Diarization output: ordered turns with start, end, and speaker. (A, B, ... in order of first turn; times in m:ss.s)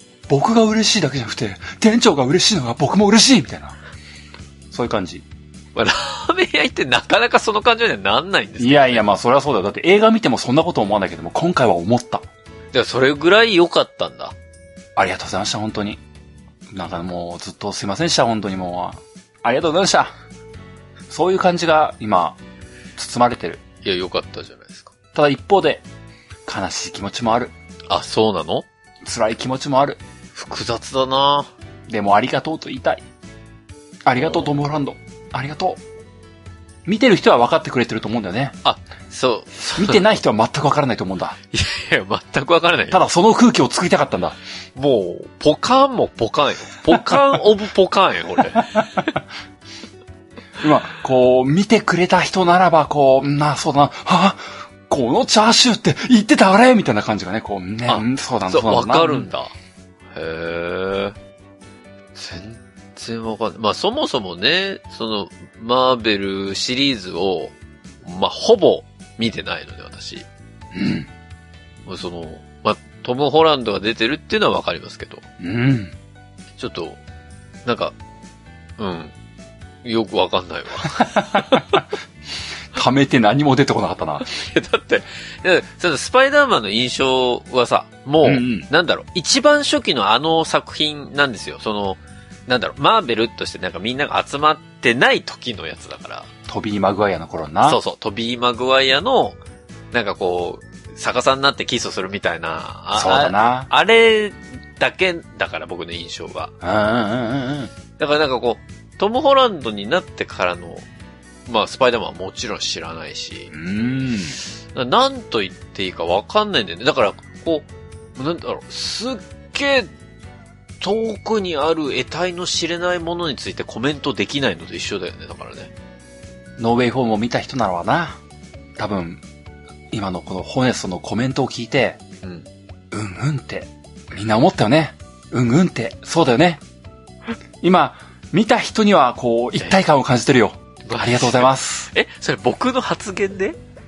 0:00.3-0:03.8 A
0:04.7-0:05.2 A
0:05.8-0:09.1 B
0:08.6-0:12.2 A
0:12.7-0:14.3 B
0:15.0-0:16.0 A
0:16.7-0:20.1 A
0:21.1-0:22.4 A
0:23.0-0:23.6 A
0:23.8-0:24.9 B
0:25.1-0:25.8 A
0:26.4-0:27.5 A
0:27.9-0:28.6 B
0:29.0-0:30.0 A
0:30.3-0:31.5 B
0:31.9-0:33.0 A
0:34.0-0:35.8 A
0:36.8-0:38.6 A
0:38.6-0:40.0 B
0:39.8-0:41.4 A
0:41.5-0:43.0 B
0:42.9-0:44.4 A
0:44.7-0:49.1 B
0:48.5-0:49.2 A
0:50.6-0:59.3 A
0:57.8-0:59.5 B
1:00.1-1:01.2 B
1:02.1-1:10.2 B
1:10.7-1:11.1 A
1:11.8-1:15.2 B
1:15.4-1:15.9 A
1:16.6-1:17.0 B
1:17.6-1:17.9 B
1:18.8-1:19.1 B
1:19.8-1:21.8 B
1:21.0-1:21.8 A
1:22.7-1:24.3 A
1:24.2-1:36.3 B
1:28.2-1:28.7 A
1:36.5-1:37.8 A
1:37.6-1:39.4 B
1:39.9-1:46.5 B
1:42.9-1:43.7 A
1:46.6-1:47.7 A
1:48.0-1:50.8 B
1:51.5-1:53.5 B
1:53.5-1:54.4 A
1:54.7-1:59.9 B
2:00.8-2:05.7 B
2:06.6-2:08.2 A
2:08.8-2:09.2 A
2:09.9-2:12.0 A
2:12.2-2:12.5 B
2:12.9-2:16.6 A
2:17.6-2:21.9 A
2:20.8-2:23.6 B